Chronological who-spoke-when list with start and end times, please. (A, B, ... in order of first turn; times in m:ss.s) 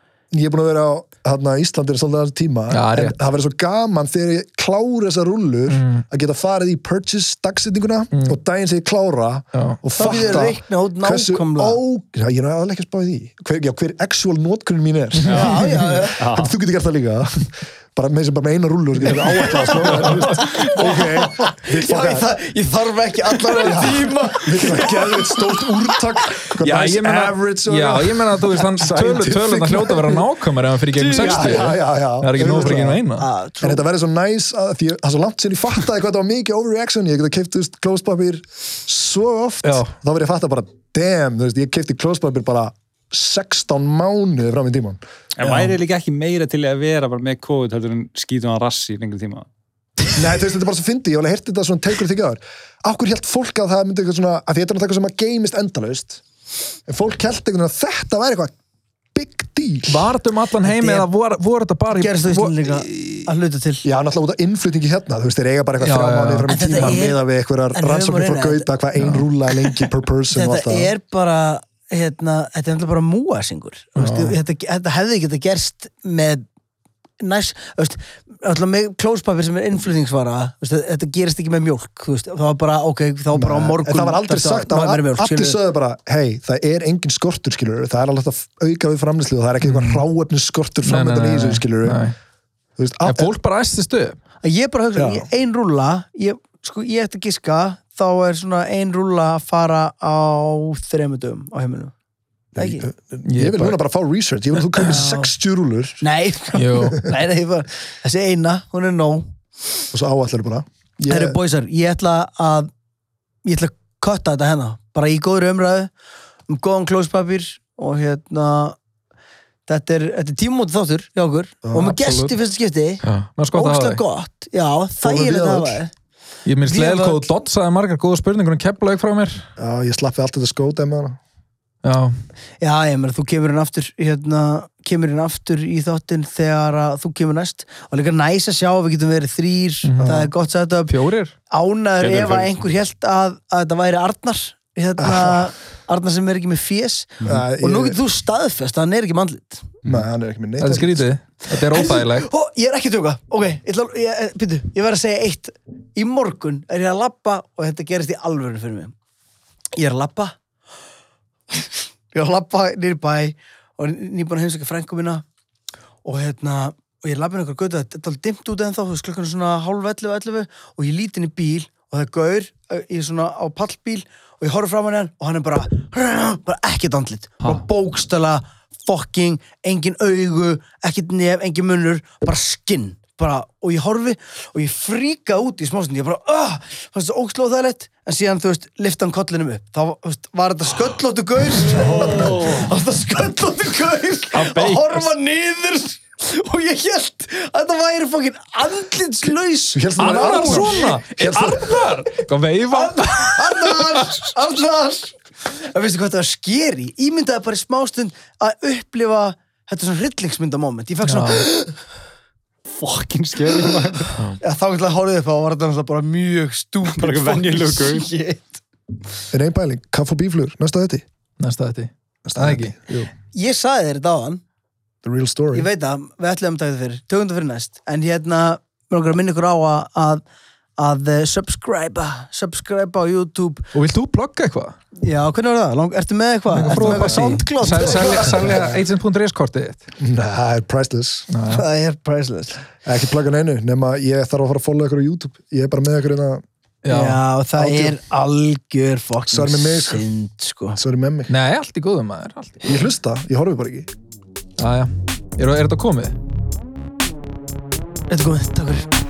0:00.3-0:22.3 A
0:02.7-0:03.2 B
0:05.7-0:06.0 B
0:09.5-0:09.8 B
0:10.0-0:11.8 C
0:15.3-0:16.2 C
0:15.3-0:16.5 D
0:19.7-0:25.4 C
0:19.8-0:20.3 B
0:23.5-0:30.3 A
0:26.6-0:33.2 B
0:31.0-0:31.7 C
0:31.0-0:33.0 A
0:33.2-0:33.8 C
0:33.6-0:45.0 A
0:39.6-0:39.9 B
0:45.4-0:49.5 D
0:45.4-0:45.7 B
0:50.2-0:56.2 A
0:56.9-0:58.5 A
0:59.1-1:00.1 A
0:59.9-1:03.3 B
1:00.6-1:01.1 C
1:01.9-1:03.8 C
1:03.8-1:10.9 A
1:05.8-1:07.0 B
1:06.5-1:07.2 C
1:07.7-1:08.7 C
1:09.0-1:09.3 B
1:10.3-1:16.4 C
1:14.0-1:14.4 B
1:17.2-1:25.6 C
1:23.3-1:32.0 A
1:29.6-1:30.0 B
1:30.8-1:32.2 B
1:32.8-1:33.3 A
1:33.0-1:34.2 B
1:34.4-1:41.9 C
1:35.0-1:35.3 A
1:42.6-1:46.0 A
1:42.6-1:42.9 C
1:43.2-1:43.8 B
1:44.8-1:45.3 C
1:46.0-1:49.3 C
1:46.5-1:47.1 B
1:49.9-1:51.4 A
1:51.1-1:52.7 C
1:53.4-1:55.9 C
1:56.5-1:58.8 C
1:59.7-2:05.9 C
2:01.6-2:02.2 A
2:01.8-2:02.3 B
2:03.0-2:04.0 B
2:05.0-2:05.8 A
2:06.4-2:09.4 B
2:06.6-2:07.2 C
2:09.6-2:11.2 A
2:11.8-2:12.2 B
2:12.6-2:20.9 C
2:19.8-2:20.2 B
2:20.0-2:20.3 A
2:20.9-2:21.3 B
2:21.5-2:29.8 C
2:22.0-2:22.6 D
2:25.0-2:25.4 A
2:27.2-2:28.0 A
2:29.8-2:31.1 A
2:30.6-2:32.3 B
2:31.5-2:38.9 C
2:39.8-2:40.4 C
2:41.5-2:45.2 C
2:46.0-3:21.5 C
3:14.3-3:15.1 B
3:19.7-3:21.6 A
3:20.0-3:24.2 B
3:22.7-3:31.8 C
3:31.0-3:31.5 B
3:32.7-3:34.3 D
3:34.4-3:38.6 C
3:37.0-3:38.1 D
3:39.3-3:41.0 A
3:41.4-3:42.7 B
3:42.2-3:43.1 A
3:43.3-3:44.4 C
3:45.0-3:45.7 A
3:45.5-3:50.2 C
3:50.8-3:53.7 C
3:53.7-3:54.8 B
3:55.0-3:58.7 C
3:56.5-3:59.8 B
4:00.0-4:01.3 A
4:01.3-4:01.6 B
4:01.5-4:02.6 C
4:02.8-4:06.4 A
4:06.8-4:07.2 B
4:06.9-4:10.8 C
4:07.6-4:08.0 A
4:09.3-4:10.0 A
4:10.8-4:11.3 A
4:11.3-4:12.6 B
4:12.6-4:13.9 A
4:14.6-4:16.2 B
4:18.1-4:18.9 C